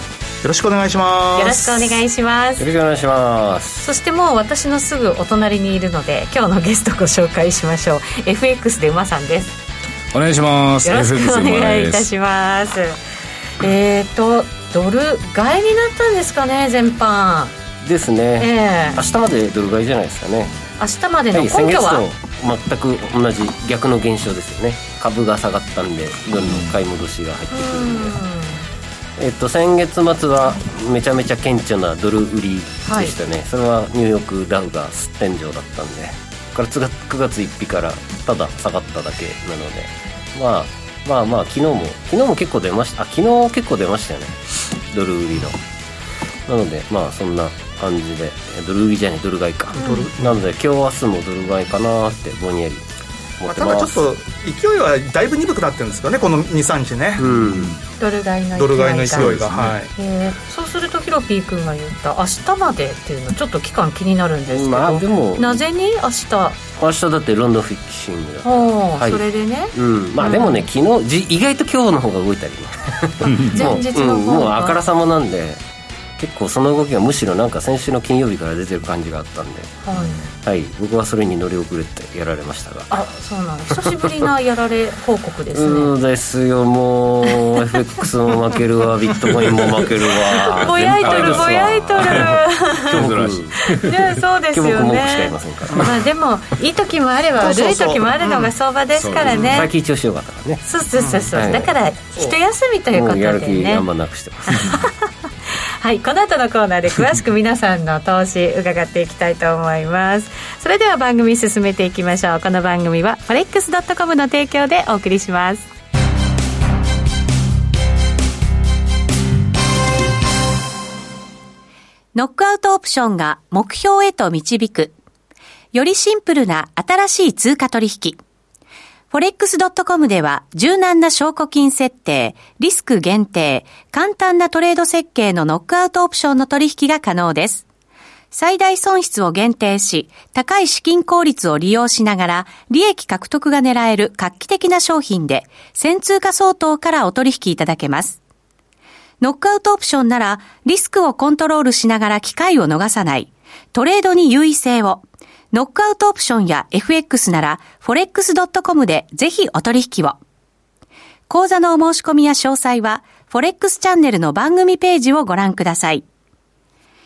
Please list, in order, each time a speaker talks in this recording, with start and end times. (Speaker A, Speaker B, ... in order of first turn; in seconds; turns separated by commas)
Speaker A: 0.4-2.0, Speaker B: 1.3-2.7, Speaker C: 2.6-3.9, Speaker B: 3.8-9.6, Speaker D: 10.1-12.1, Speaker B: 10.8-13.0, Speaker B: 13.6-17.5, Speaker C: 17.8-20.6, Speaker B: 18.4-19.0, Speaker B: 20.8-22.0, Speaker C: 21.3-28.2, Speaker B: 27.5-28.6, Speaker C: 29.2-45.6, Speaker B: 32.8-33.1, Speaker C: 46.5-52.8, Speaker B: 49.7-50.1, Speaker A: 49.8-50.2, Speaker C: 53.4-54.1, Speaker A: 53.5-57.3, Speaker C: 57.2-57.8, Speaker B: 58.0-59.3, Speaker A: 58.5-59.9, Speaker D: 59.3-59.7, Speaker B: 59.9-66.6, Speaker C: 64.5-65.6, Speaker C: 66.8-69.2, Speaker B: 68.4-70.7, Speaker C: 69.7-75.6, Speaker B: 73.5-74.8, Speaker C: 76.2-79.8, Speaker B: 79.8-80.2, Speaker C: 80.3-82.9, Speaker B: 82.9-85.9, Speaker C: 85.5-93.6, Speaker B: 87.3-87.5, Speaker B: 90.3-93.1, Speaker D: 90.8-92.3, Speaker D: 92.9-94.1, Speaker B: 93.6-99.7, Speaker C: 94.5-96.0, Speaker A: 97.4-98.5, Speaker D: 99.0-99.5, Speaker C: 99.4-100.6, Speaker B: 100.6-103.9, Speaker A: 101.0-101.3, Speaker C: 101.3-101.7, Speaker C: 102.9-104.9, Speaker B: 104.5-115.7, Speaker B: 122.1-124.9, Speaker B: 125.7-128.2, Speaker B: 129.1-137.7, Speaker B: 138.3-148.2, Speaker B: 149.2-160.2, Speaker B: 161.3-166.0